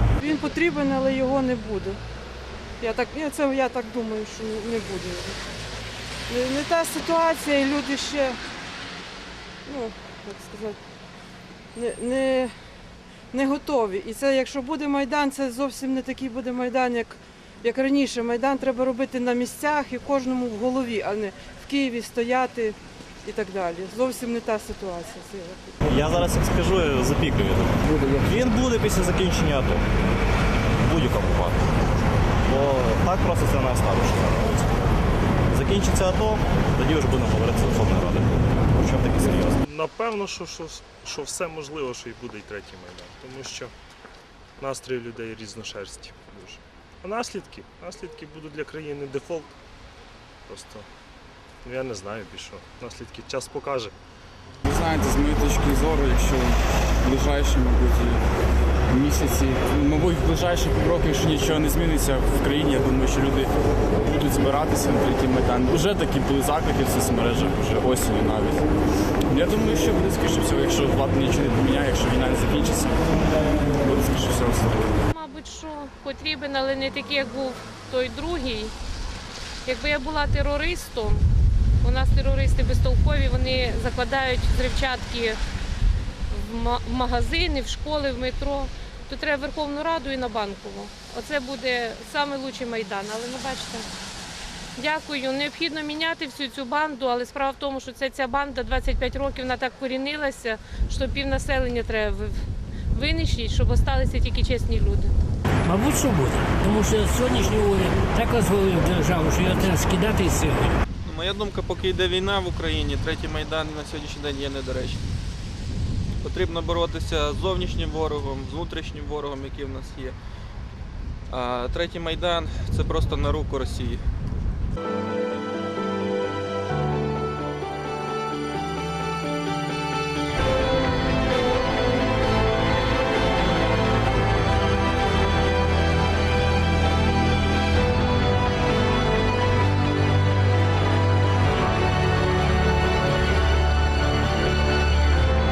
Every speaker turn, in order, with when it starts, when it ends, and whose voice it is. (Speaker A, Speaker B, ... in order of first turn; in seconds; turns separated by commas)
Speaker A: 0.2-2.0, Speaker A: 2.8-5.4, Speaker A: 6.3-8.4, Speaker A: 9.6-10.8, Speaker A: 11.7-12.6, Speaker A: 13.3-25.8, Speaker B: 25.9-29.9, Speaker B: 30.8-31.7, Speaker B: 32.5-34.8, Speaker B: 35.5-39.6, Speaker C: 39.6-43.7, Speaker C: 44.6-49.5, Speaker C: 50.5-50.8, Speaker C: 51.6-53.9, Speaker D: 54.6-58.2, Speaker D: 58.9-63.5, Speaker D: 64.0-68.6, Speaker D: 69.3-73.0, Speaker D: 73.8-75.0, Speaker E: 75.1-78.7, Speaker E: 79.7-81.2, Speaker E: 81.8-85.4, Speaker E: 86.3-93.9, Speaker E: 94.8-102.4, Speaker E: 102.9-105.1, Speaker F: 105.6-110.7, Speaker G: 111.0-115.1, Speaker G: 116.2-120.1, Speaker G: 121.3-124.0